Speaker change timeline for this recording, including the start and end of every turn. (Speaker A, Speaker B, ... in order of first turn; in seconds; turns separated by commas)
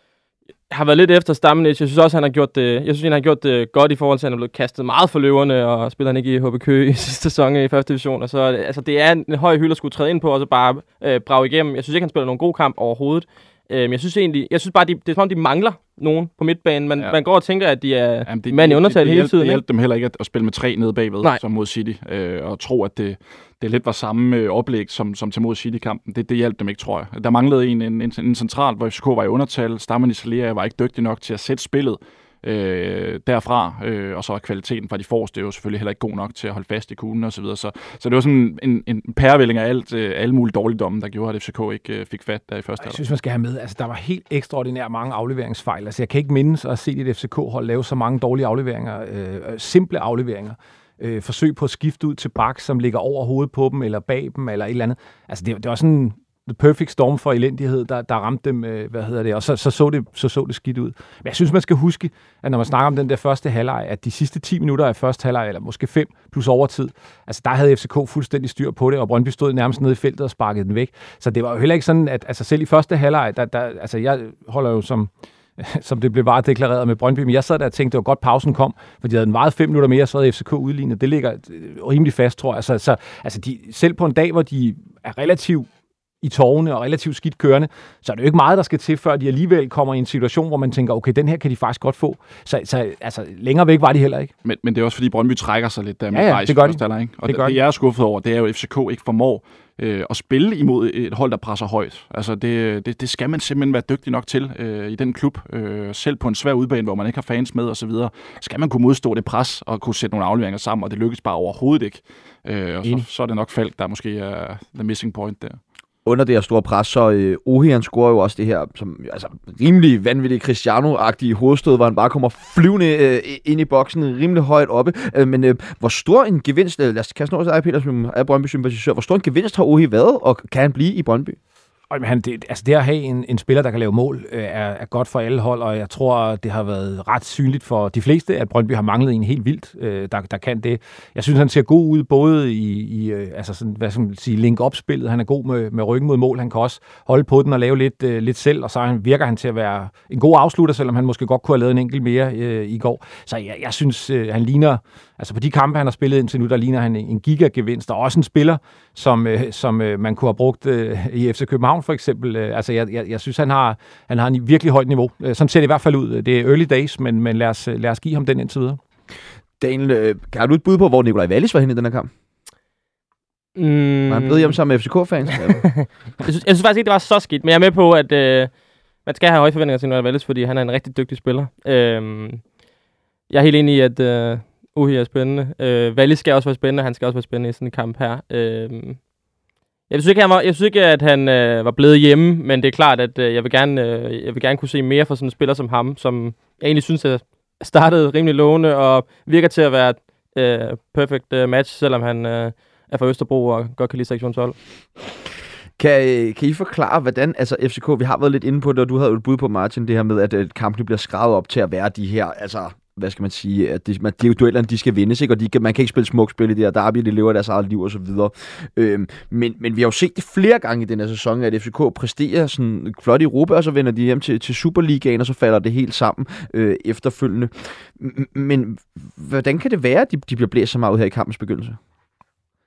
Speaker A: 0.7-19.6, Speaker B: 18.2-43.0, Speaker C: 42.8-85.7, Speaker C: 86.2-94.3, Speaker B: 94.4-115.6, Speaker C: 96.1-97.6, Speaker D: 116.0-131.4, Speaker C: 131.9-168.8, Speaker D: 169.6-172.1, Speaker A: 173.6-174.6, Speaker D: 174.1-175.7, Speaker A: 175.4-178.5, Speaker A: 179.0-182.4, Speaker A: 183.3-189.0, Speaker A: 189.9-204.6, Speaker D: 205.8-231.8